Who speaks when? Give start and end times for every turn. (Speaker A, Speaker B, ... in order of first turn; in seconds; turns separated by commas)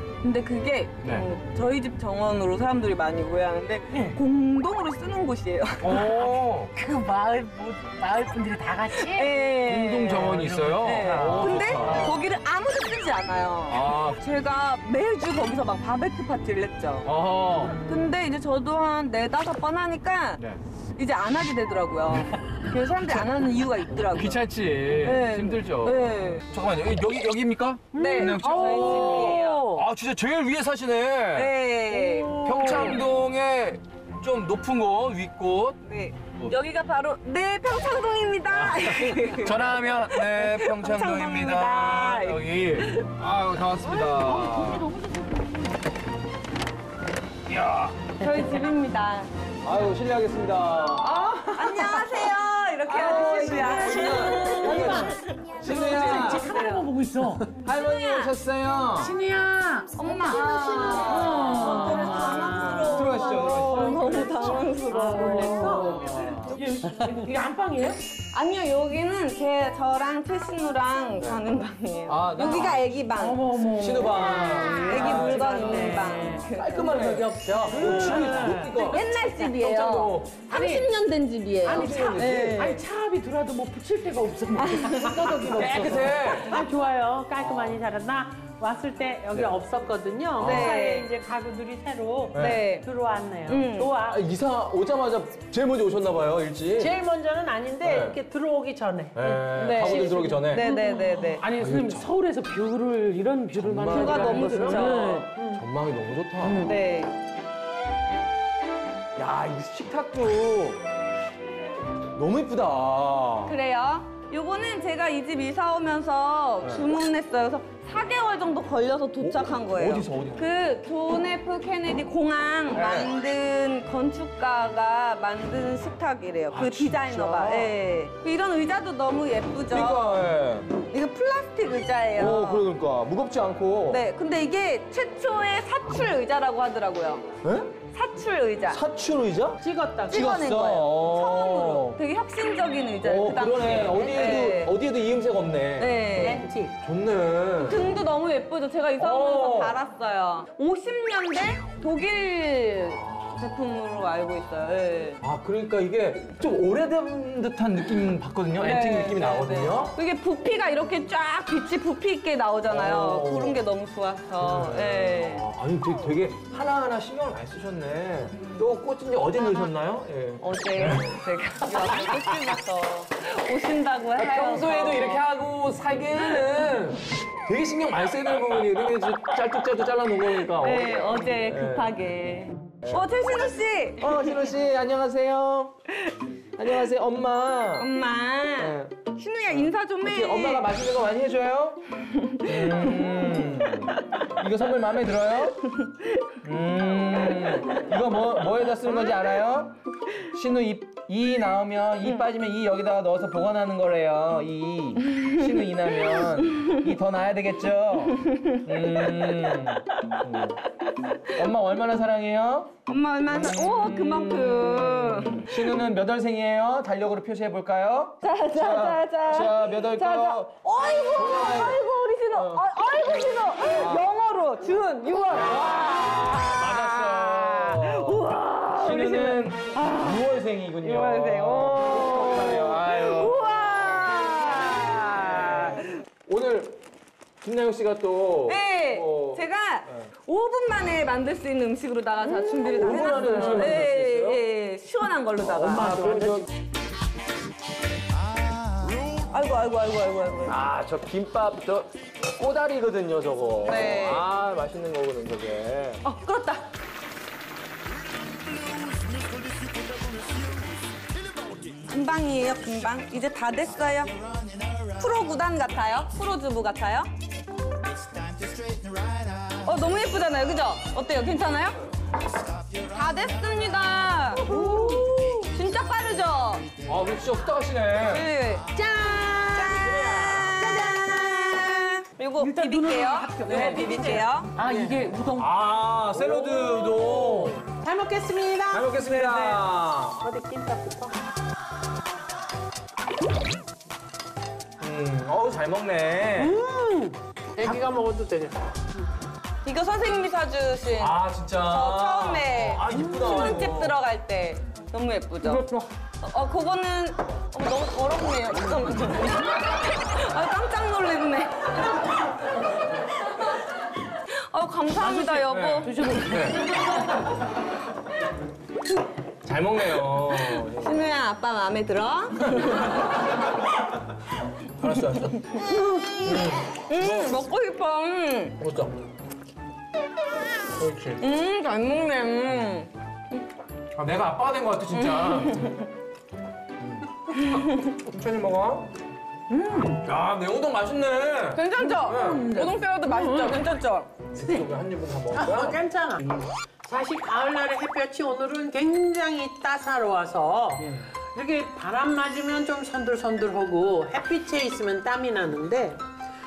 Speaker A: 0.2-6.1, Speaker B: 3.9-4.2, Speaker C: 5.8-6.7, Speaker B: 6.7-9.3, Speaker A: 8.9-17.1, Speaker C: 9.6-12.2, Speaker B: 10.2-12.2, Speaker C: 13.7-14.2, Speaker C: 17.1-17.8, Speaker A: 17.8-20.4, Speaker A: 21.0-26.5, Speaker C: 24.1-31.5, Speaker A: 27.9-29.6, Speaker B: 27.9-29.9, Speaker A: 31.3-33.0, Speaker B: 31.9-33.1, Speaker C: 32.4-35.8, Speaker A: 35.8-43.1, Speaker C: 38.5-44.9, Speaker B: 43.9-45.5, Speaker C: 47.5-47.9, Speaker A: 48.2-49.3, Speaker D: 49.6-52.2, Speaker A: 50.9-56.9, Speaker D: 52.9-56.6, Speaker B: 53.3-57.5, Speaker A: 57.6-58.4, Speaker D: 57.6-59.2, Speaker B: 59.0-68.0, Speaker A: 60.0-66.7, Speaker E: 61.7-62.6, Speaker D: 62.8-64.1, Speaker E: 64.9-66.2, Speaker D: 65.5-66.6, Speaker A: 68.3-73.6, Speaker D: 72.1-72.8, Speaker B: 73.2-76.4, Speaker D: 73.7-80.5, Speaker A: 74.5-77.3, Speaker E: 75.8-76.3, Speaker E: 77.2-78.7, Speaker B: 77.7-78.8, Speaker A: 78.7-82.8, Speaker B: 80.5-80.9, Speaker D: 81.6-82.8, Speaker B: 81.6-86.6, Speaker A: 84.6-85.7, Speaker D: 85.5-86.7, Speaker E: 86.5-94.2, Speaker D: 87.3-87.8, Speaker D: 89.3-89.6, Speaker D: 90.4-90.8, Speaker A: 90.4-91.1, Speaker D: 92.3-92.7, Speaker A: 92.3-92.9, Speaker A: 93.5-93.9, Speaker D: 94.0-96.9, Speaker E: 96.8-99.3, Speaker D: 97.8-98.2, Speaker D: 99.1-100.7, Speaker B: 99.3-105.4, Speaker A: 99.5-101.4, Speaker D: 101.5-102.1, Speaker D: 103.5-104.8, Speaker A: 103.9-105.3, Speaker D: 105.5-106.7, Speaker B: 106.4-106.7, Speaker A: 106.6-107.1, Speaker D: 109.2-110.8, Speaker D: 112.2-113.5, Speaker A: 113.5-130.2, Speaker D: 116.6-116.9, Speaker D: 119.2-120.5, Speaker D: 122.7-123.1, Speaker D: 126.5-127.7, Speaker D: 129.7-130.7, Speaker A: 130.8-132.7, Speaker D: 132.2-134.0, Speaker A: 133.9-138.8, Speaker D: 137.4-137.8, Speaker D: 138.7-142.0, Speaker E: 139.6-140.2, Speaker A: 140.1-144.7, Speaker D: 143.0-146.1, Speaker A: 145.8-146.4, Speaker E: 146.1-146.7, Speaker D: 146.8-147.8, Speaker A: 147.6-155.2, Speaker D: 149.0-149.8, Speaker D: 155.2-160.0, Speaker A: 158.6-165.5, Speaker D: 162.7-163.6, Speaker D: 164.4-171.2, Speaker A: 168.3-168.7, Speaker A: 169.4-169.7, Speaker A: 170.4-175.2, Speaker D: 171.7-172.6, Speaker D: 174.2-181.9, Speaker A: 176.2-176.5, Speaker A: 180.4-184.5, Speaker D: 184.0-185.7, Speaker D: 186.6-187.9, Speaker A: 187.8-190.7, Speaker D: 188.6-189.0, Speaker D: 189.5-191.8, Speaker A: 192.0-194.2, Speaker D: 192.4-195.6, Speaker D: 196.4-199.8, Speaker A: 197.3-197.7, Speaker A: 198.8-199.4, Speaker D: 200.3-210.6, Speaker A: 205.1-205.4, Speaker A: 206.0-206.7, Speaker A: 208.1-209.5, Speaker A: 211.1-211.4, Speaker D: 211.3-212.7, Speaker A: 212.9-215.7, Speaker D: 213.3-220.6, Speaker A: 218.2-230.3, Speaker D: 221.1-222.6, Speaker D: 223.7-224.1, Speaker D: 225.3-233.5, Speaker A: 230.8-235.9, Speaker D: 236.3-236.8, Speaker D: 237.4-240.1, Speaker A: 238.5-246.1, Speaker D: 242.4-244.4, Speaker D: 245.4-246.5, Speaker E: 245.9-246.4, Speaker A: 249.1-250.6, Speaker D: 250.5-256.0, Speaker A: 253.6-254.3, Speaker A: 256.0-256.7, Speaker A: 261.8-264.2, Speaker A: 264.8-267.1, Speaker A: 269.6-271.8, Speaker A: 272.9-276.7, Speaker D: 276.9-278.3, Speaker A: 278.1-278.7, Speaker E: 278.7-279.7, Speaker A: 279.3-284.5, Speaker D: 279.7-280.5, Speaker E: 282.4-284.2, Speaker B: 283.4-285.5, Speaker D: 285.4-287.6, Speaker E: 287.8-289.6, Speaker D: 288.7-290.2, Speaker E: 290.2-291.1, Speaker D: 294.8-296.6, Speaker E: 296.4-298.6, Speaker A: 299.6-305.6, Speaker D: 301.0-304.0, Speaker D: 305.4-305.8, Speaker A: 306.2-312.0, Speaker A: 314.1-315.9, Speaker B: 315.0-316.6, Speaker D: 315.5-316.6, Speaker D: 319.4-321.1, Speaker A: 319.9-323.2, Speaker D: 324.8-325.4, Speaker A: 324.9-328.6, Speaker D: 326.2-327.4, Speaker D: 328.6-328.9, Speaker D: 330.8-331.2, Speaker A: 331.2-333.4, Speaker D: 333.9-335.8, Speaker A: 334.9-335.9, Speaker D: 336.8-337.1, Speaker A: 337.4-337.8, Speaker D: 337.9-338.9, Speaker E: 339.6-339.9, Speaker D: 339.9-342.7, Speaker A: 341.5-344.1, Speaker D: 344.3-345.8, Speaker E: 345.3-356.0